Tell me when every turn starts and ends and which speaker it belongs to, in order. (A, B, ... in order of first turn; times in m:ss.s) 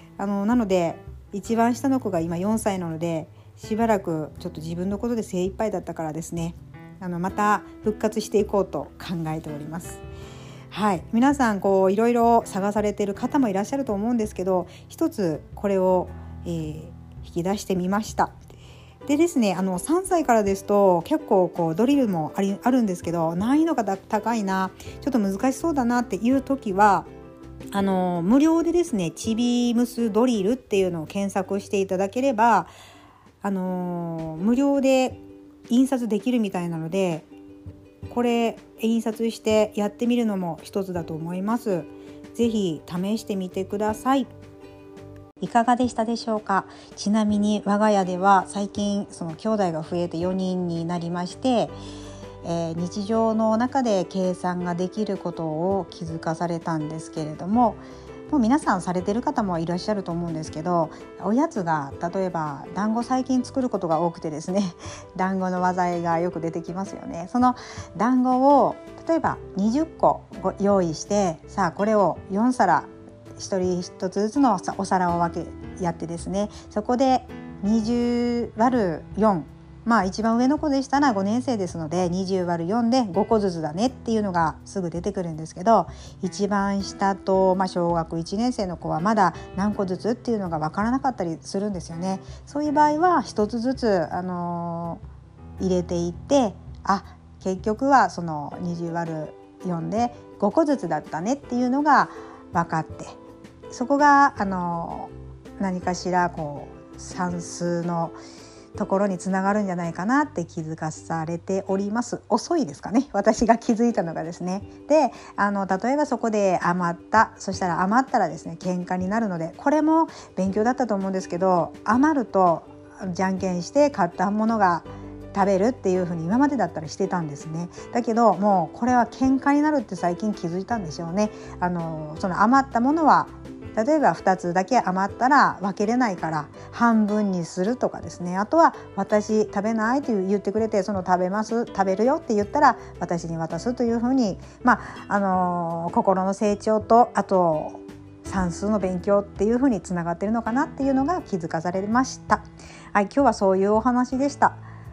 0:00.2-0:10.0 A
0:10.7-0:18.4 A
0:19.1-0:27.1 A
0:27.7-0:32.7 A
0:33.4-0:37.3 A
0:38.1-0:44.3 A
0:45.4-0:51.7 A
0:52.4-1:35.0 A
1:35.6-1:43.2 A
1:43.7-1:48.2 A
1:48.8-2:34.6 A